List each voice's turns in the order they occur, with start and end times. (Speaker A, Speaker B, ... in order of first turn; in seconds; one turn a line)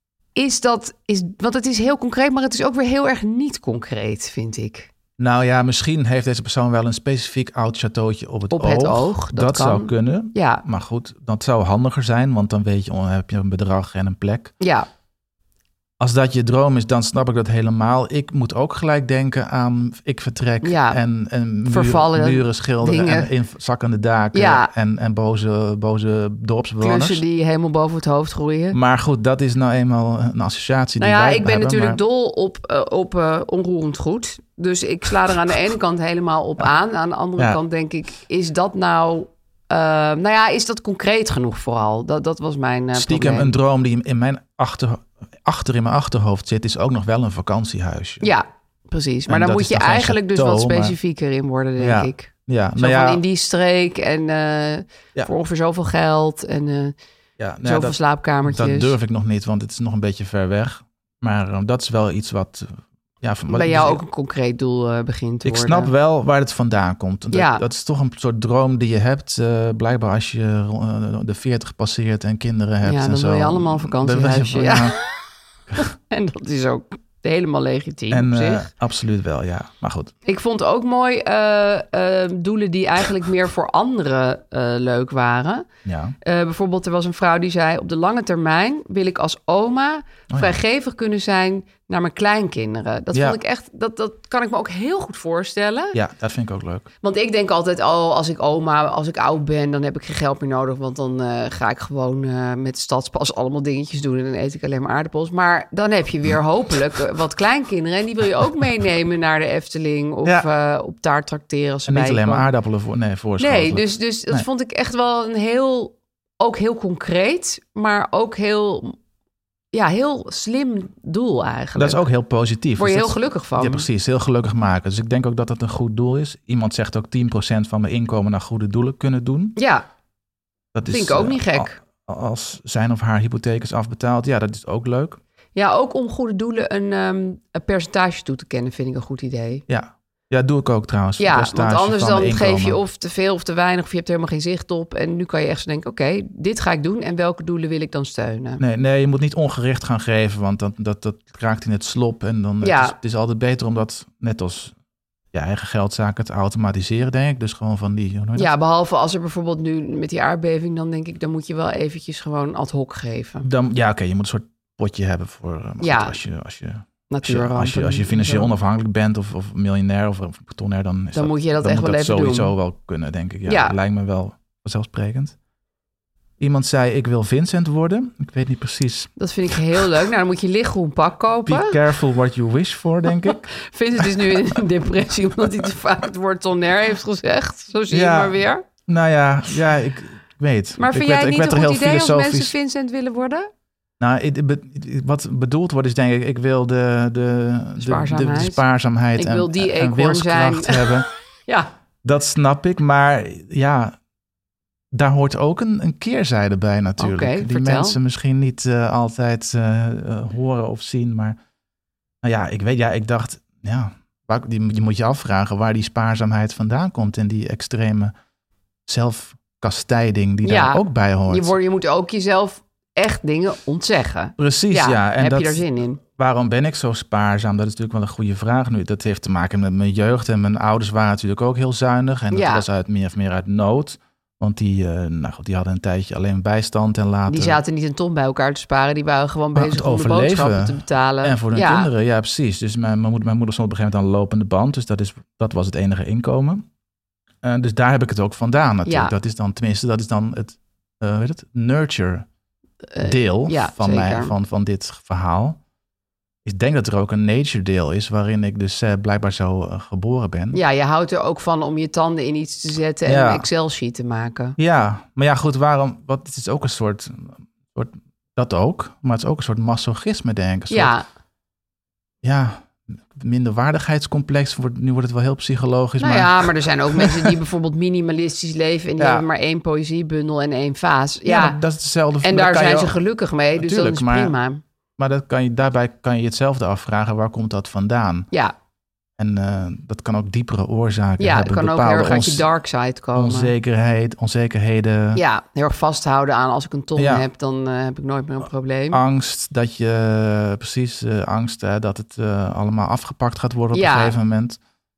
Speaker A: 0.4-4.9
Speaker B: 5.2-14.5
Speaker A: 8.5-10.6
Speaker A: 14.6-14.9
Speaker B: 16.0-27.2
Speaker A: 20.6-21.0
Speaker A: 21.6-23.3
Speaker A: 24.3-24.7
Speaker A: 26.8-28.8
Speaker B: 28.7-32.0
Speaker A: 31.0-43.6
Speaker B: 43.0-48.3
Speaker A: 48.2-57.0
Speaker B: 49.3-51.0
Speaker B: 51.8-53.2
Speaker B: 57.4-64.0
Speaker A: 57.6-59.0
Speaker A: 63.5-65.9
Speaker B: 65.4-75.0
Speaker A: 67.3-67.6
Speaker A: 72.8-75.3
Speaker A: 75.8-78.7
Speaker B: 78.1-80.1
Speaker A: 80.2-85.7
Speaker B: 85.8-86.2
Speaker A: 86.2-96.0
Speaker B: 90.3-90.5
Speaker B: 93.1-93.4
Speaker B: 95.9-96.9
Speaker A: 97.0-112.5
Speaker B: 111.9-114.5
Speaker A: 113.4-119.0
Speaker A: 119.7-122.0
Speaker B: 121.8-129.6
Speaker A: 122.8-123.9
Speaker A: 129.6-129.8
Speaker B: 130.7-135.2
Speaker A: 130.9-131.8
Speaker A: 135.6-139.7
Speaker B: 139.7-142.8
Speaker A: 141.2-148.6
Speaker B: 148.6-154.8
Speaker A: 152.6-153.0
Speaker B: 155.3-158.5
Speaker A: 158.4-163.5
Speaker B: 163.4-175.4
Speaker A: 165.8-166.2
Speaker A: 167.1-168.5
Speaker A: 171.1-172.6
Speaker A: 173.5-173.8
Speaker B: 176.4-179.9
Speaker A: 179.2-181.8
Speaker B: 181.5-184.4
Speaker A: 183.5-188.7
Speaker B: 187.9-192.5
Speaker A: 190.8-193.5
Speaker B: 194.0-201.1
Speaker A: 197.8-198.6
Speaker A: 199.2-201.7
Speaker B: 202.0-204.0
Speaker B: 204.9-211.4
Speaker A: 207.0-208.0
Speaker B: 212.2-218.1
Speaker B: 218.9-221.6
Speaker A: 220.4-226.0
Speaker B: 224.4-237.6
Speaker A: 232.3-232.7
Speaker A: 237.3-241.9
Speaker B: 239.6-246.7
Speaker B: 247.4-252.3
Speaker A: 248.9-249.1
Speaker A: 252.9-254.3
Speaker B: 253.0-255.6
Speaker B: 256.4-260.6
Speaker A: 260.5-264.6
Speaker B: 263.1-263.5
Speaker B: 264.6-270.9
Speaker A: 270.7-271.1
Speaker B: 272.2-277.3
Speaker A: 276.0-281.6
Speaker B: 279.0-279.3
Speaker B: 281.2-283.0
Speaker A: 282.2-284.6
Speaker B: 283.6-284.3
Speaker B: 285.0-288.3
Speaker B: 289.2-292.5
Speaker A: 291.2-293.5
Speaker B: 293.1-295.2
Speaker A: 295.1-299.0
Speaker B: 297.0-297.3
Speaker B: 298.9-304.6
Speaker A: 303.7-304.2